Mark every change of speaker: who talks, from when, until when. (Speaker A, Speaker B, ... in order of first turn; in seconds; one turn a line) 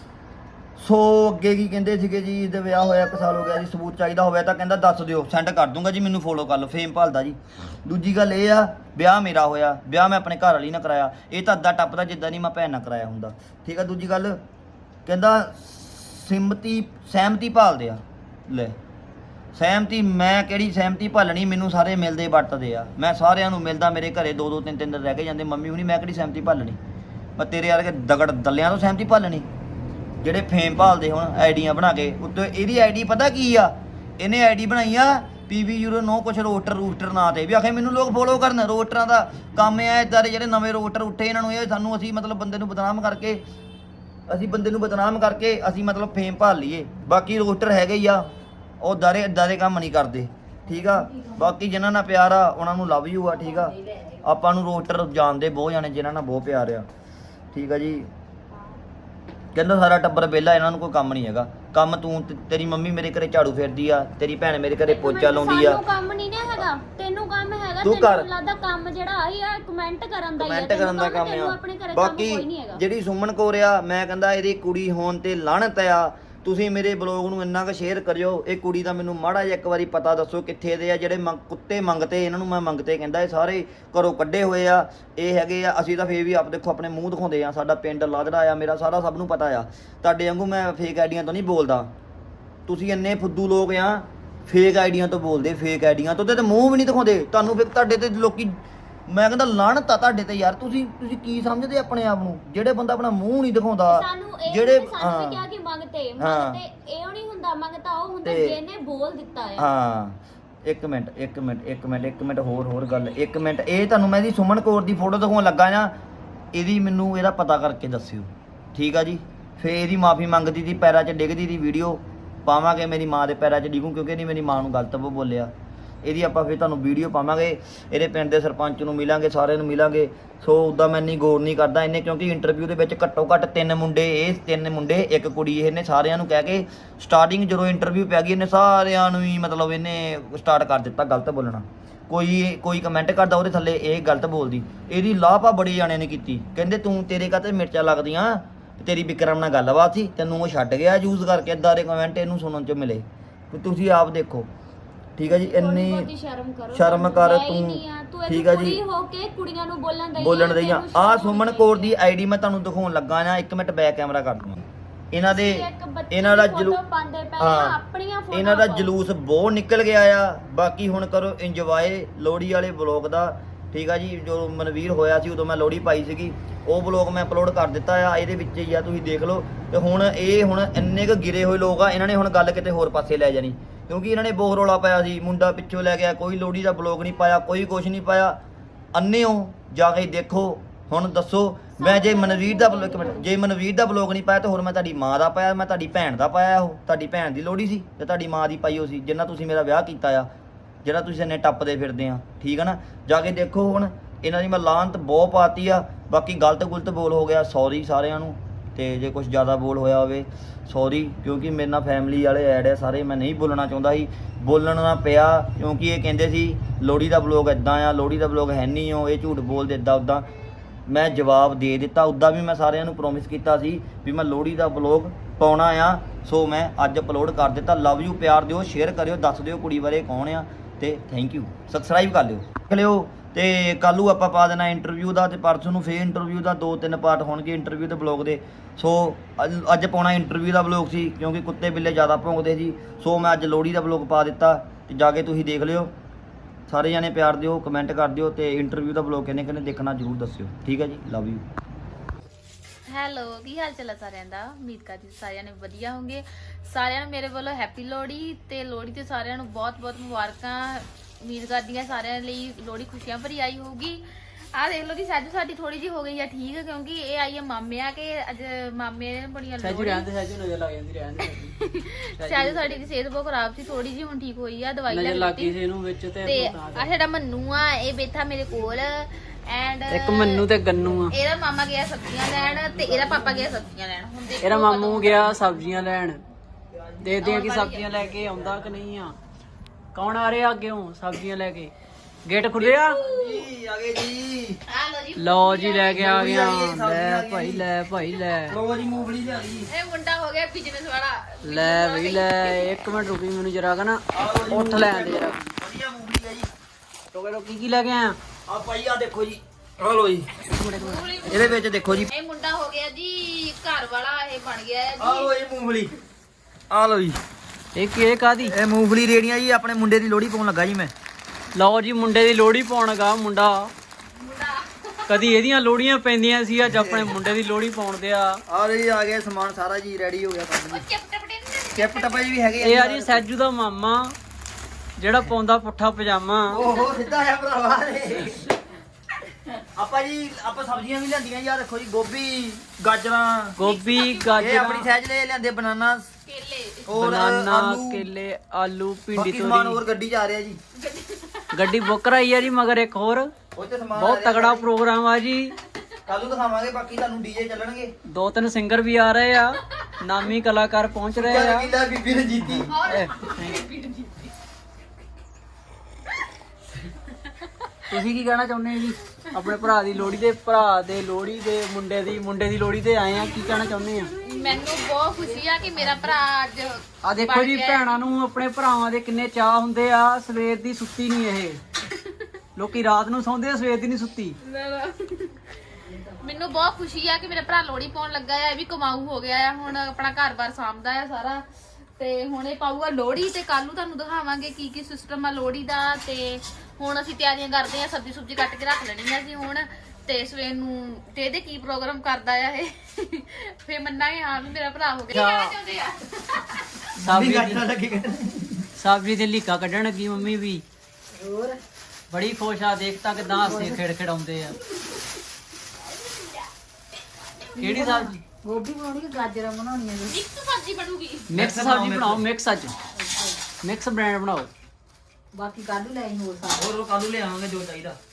Speaker A: 0.8-14.4
Speaker A: 15.1-18.8
Speaker A: 19.6-26.8
Speaker A: 27.4-29.5
Speaker A: 30.2-43.4
Speaker A: 44.3-48.3
Speaker A: 48.8-56.9
Speaker B: 51.0-51.4
Speaker B: 53.4-54.2
Speaker A: 57.5-58.1
Speaker A: 59.5-65.8
Speaker C: 64.8-72.8
Speaker A: 67.8-68.3
Speaker A: 70.4-91.9
Speaker A: 92.7-105.4
Speaker C: 103.9-109.7
Speaker A: 106.2-106.6
Speaker A: 108.2-108.6
Speaker A: 109.6-115.9
Speaker A: 116.5-125.5
Speaker A: 126.0-154.5
Speaker A: 155.2-156.1
Speaker C: 155.3-162.0
Speaker A: 156.7-158.8
Speaker A: 160.2-164.6
Speaker A: 165.1-166.8
Speaker C: 165.3-168.9
Speaker A: 167.4-167.8
Speaker A: 168.3-188.4
Speaker A: 188.9-200.3
Speaker C: 191.8-193.3
Speaker A: 200.8-220.3
Speaker A: 220.9-245.9
Speaker A: 246.7-251.4
Speaker D: 252.9-270.1
Speaker E: 269.6-272.8
Speaker D: 271.8-275.6
Speaker E: 274.9-276.9
Speaker D: 276.2-280.4
Speaker E: 279.9-281.1
Speaker D: 281.1-285.5
Speaker A: 282.4-283.5
Speaker E: 284.4-286.2
Speaker A: 286.7-287.2
Speaker E: 287.0-289.2
Speaker D: 287.2-287.9
Speaker A: 287.9-288.8
Speaker E: 289.9-291.7
Speaker E: 292.2-293.0
Speaker A: 292.6-294.6
Speaker D: 292.8-293.5
Speaker D: 294.7-296.4
Speaker E: 295.2-298.6
Speaker A: 296.0-297.7
Speaker A: 298.5-299.7
Speaker D: 299.7-302.7
Speaker E: 301.4-305.4
Speaker A: 304.1-306.5
Speaker E: 307.1-308.2
Speaker A: 308.5-310.3
Speaker E: 310.5-311.1
Speaker D: 310.8-315.3
Speaker A: 311.3-312.1
Speaker A: 315.0-315.9
Speaker A: 316.7-317.2
Speaker E: 317.8-318.5
Speaker A: 318.4-320.9
Speaker E: 321.6-323.7
Speaker D: 324.2-325.4
Speaker E: 325.1-328.4
Speaker A: 326.7-327.1
Speaker A: 328.5-330.9
Speaker D: 330.7-332.3
Speaker A: 331.8-333.3
Speaker E: 332.6-334.2
Speaker E: 335.0-336.7
Speaker A: 336.5-338.5
Speaker D: 336.6-337.0
Speaker A: 339.8-343.6
Speaker E: 343.6-344.9
Speaker D: 343.6-344.6
Speaker A: 344.4-346.1
Speaker D: 346.3-347.0
Speaker A: 346.9-348.1
Speaker E: 346.9-349.8
Speaker A: 349.1-350.6
Speaker D: 350.8-351.9
Speaker E: 351.5-353.3
Speaker A: 353.6-354.7
Speaker E: 353.9-355.6
Speaker A: 356.1-357.9
Speaker E: 358.1-361.7
Speaker A: 361.2-362.7
Speaker D: 362.7-364.3
Speaker E: 362.8-363.6
Speaker D: 367.1-367.5
Speaker E: 367.9-374.1
Speaker D: 374.2-377.9
Speaker E: 377.0-381.6
Speaker E: 382.6-384.4
Speaker D: 384.4-385.4
Speaker D: 386.2-391.4
Speaker D: 392.0-406.9
Speaker E: 405.1-405.5
Speaker E: 407.0-407.6
Speaker A: 407.1-408.7
Speaker E: 408.8-410.6
Speaker B: 411.2-411.6
Speaker E: 412.1-414.6
Speaker B: 413.4-413.8
Speaker E: 417.6-418.2
Speaker B: 417.6-420.2
Speaker D: 420.1-421.3
Speaker E: 421.3-422.8
Speaker A: 421.4-422.2
Speaker B: 423.0-423.4
Speaker E: 423.6-424.5
Speaker B: 425.3-426.6
Speaker A: 426.5-428.0